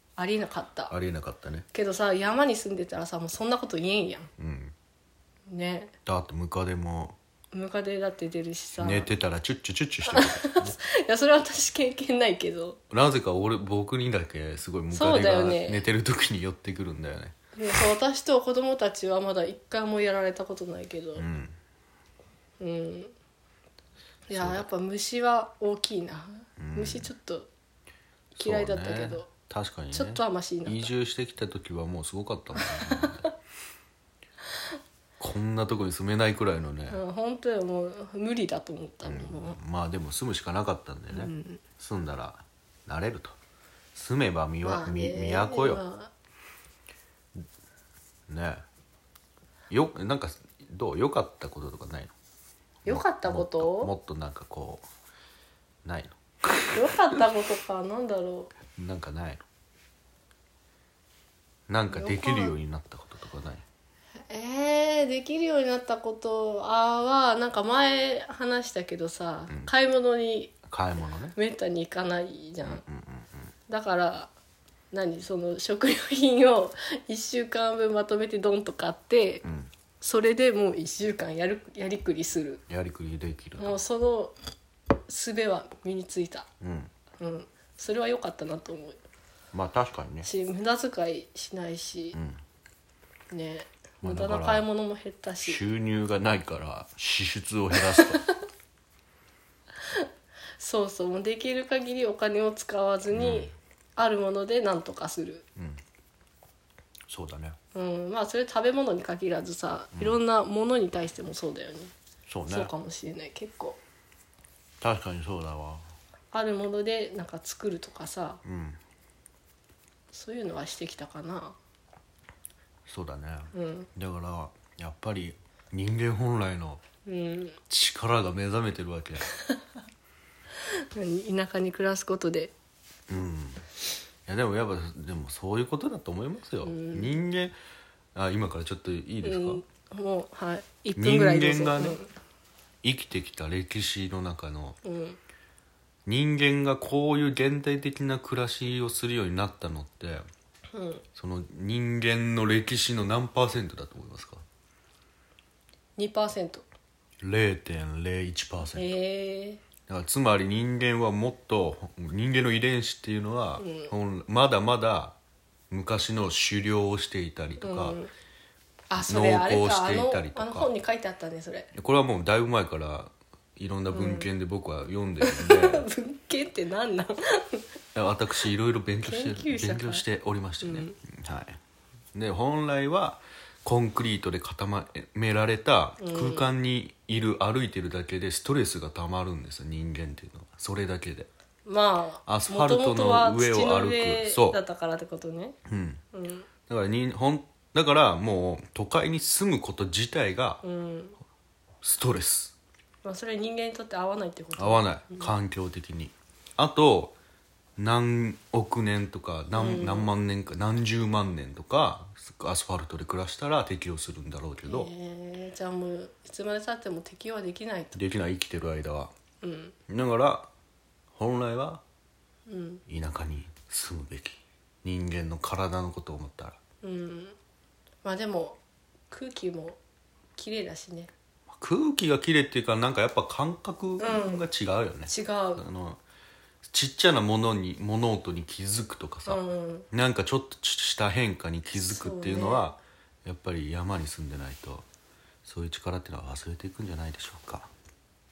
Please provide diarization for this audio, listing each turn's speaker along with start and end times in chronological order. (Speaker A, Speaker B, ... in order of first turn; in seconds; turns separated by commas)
Speaker A: 0.2-0.9, Speaker B: 0.9-1.7, Speaker A: 1.7-4.3, Speaker B: 4.4-4.7, Speaker A: 5.5-5.9, Speaker B: 6.1-7.2, Speaker A: 7.5-9.1, Speaker B: 8.8-10.8, Speaker A: 10.1-12.8, Speaker B: 12.9-17.4, Speaker A: 14.9-15.8, Speaker A: 17.6-21.3, Speaker B: 21.2-21.6, Speaker A: 22.6-23.1, Speaker A: 24.3-27.5, Speaker B: 24.3-24.7, Speaker B: 26.6-27.1, Speaker B: 28.4-33.3, Speaker A: 28.4-29.3, Speaker A: 29.9-30.9, Speaker A: 32.6-33.2, Speaker B: 35.2-37.0, Speaker A: 36.9-39.6, Speaker B: 39.0-43.4, Speaker A: 41.1-41.6, Speaker B: 44.0-45.8, Speaker A: 44.6-46.1, Speaker B: 48.3-48.6, Speaker B: 49.7-52.1, Speaker A: 52.9-53.9, Speaker B: 52.9-54.9, Speaker B: 55.9-56.8, Speaker A: 56.7-58.5, Speaker B: 58.7-59.4, Speaker B: 61.7-63.6, Speaker A: 61.9-62.5, Speaker A: 64.2-70.6, Speaker B: 70.7-71.3, Speaker A: 71.3-72.8, Speaker B: 72.6-73.5, Speaker A: 73.7-74.3, Speaker A: 74.9-79.4, Speaker B: 79.4-79.7, Speaker A: 80.0-82.6, Speaker B: 82.7-83.8, Speaker A: 83.6-84.3, Speaker A: 85.1-86.5, Speaker B: 86.6-86.9, Speaker A: 87.2-89.0, Speaker B: 89.5-90.3, Speaker A: 90.2-92.2, Speaker B: 92.1-92.4, Speaker A: 93.3-95.6, Speaker B: 94.0-94.7, Speaker B: 95.4-98.2, Speaker A: 97.8-98.4, Speaker A: 100.6-105.5, Speaker B: 103.1-103.5, Speaker B: 107.1-107.6, Speaker A: 107.7-111.9, Speaker B: 110.0-110.2, Speaker B: 112.3-112.7, Speaker A: 112.5-113.8, Speaker B: 114.8-115.9, Speaker A: 116.3-118.4, Speaker B: 118.4-118.8, Speaker A: 120.1-121.6, Speaker B: 122.9-126.8, Speaker A: 123.5-123.9, Speaker A: 127.1-127.6, Speaker B: 127.7-129.3, Speaker A: 130.7-132.5, Speaker B: 133.1-133.6, Speaker B: 134.3-137.6, Speaker A: 136.6-137.2, Speaker B: 138.2-139.6, Speaker A: 139.2-142.1, Speaker B: 141.0-142.0, Speaker B: 142.8-144.8, Speaker A: 144.8-145.2, Speaker B: 146.1-150.2, Speaker A: 150.7-151.0, Speaker B: 151.2-154.4, Speaker A: 156.0-156.6, Speaker B: 157.2-158.9, Speaker A: 158.8-159.6, Speaker B: 159.9-165.2, Speaker A: 163.6-163.9, Speaker B: 165.7-168.0, Speaker A: 167.6-168.1, Speaker A: 168.9-171.7, Speaker B: 169.0-170.7, Speaker B: 171.8-175.9, Speaker A: 173.9-174.3, Speaker A: 175.2-177.7, Speaker B: 177.9-181.6, Speaker A: 179.0-180.1, Speaker A: 180.6-180.9, Speaker B: 182.1-191.3, Speaker A: 186.0-186.5, Speaker A: 191.7-195.6, Speaker B: 192.3-194.6, Speaker B: 195.7-196.0, Speaker A: 196.1-196.5, Speaker B: 196.7-200.6, Speaker A: 200.6-201.2, Speaker B: 201.8-202.6, Speaker A: 203.0-205.3, Speaker B: 204.6-207.2, Speaker B: 207.8-214.9, Speaker A: 209.5-210.1, Speaker A: 214.7-218.0, Speaker B: 217.9-219.1, Speaker A: 219.4-219.8, Speaker B: 219.9-220.5, Speaker B: 221.2-221.8, Speaker A: 222.5-222.8, Speaker B: 222.9-226.6, Speaker A: 226.8-227.4, Speaker A: 228.0-228.6, Speaker A: 229.1-229.8, Speaker A: 230.4-231.1, Speaker B: 231.5-236.0, Speaker A: 234.0-234.4, Speaker A: 235.1-235.6, Speaker B: 236.6-244.8, Speaker A: 239.3-239.9, Speaker A: 241.7-242.7, Speaker B: 245.4-247.7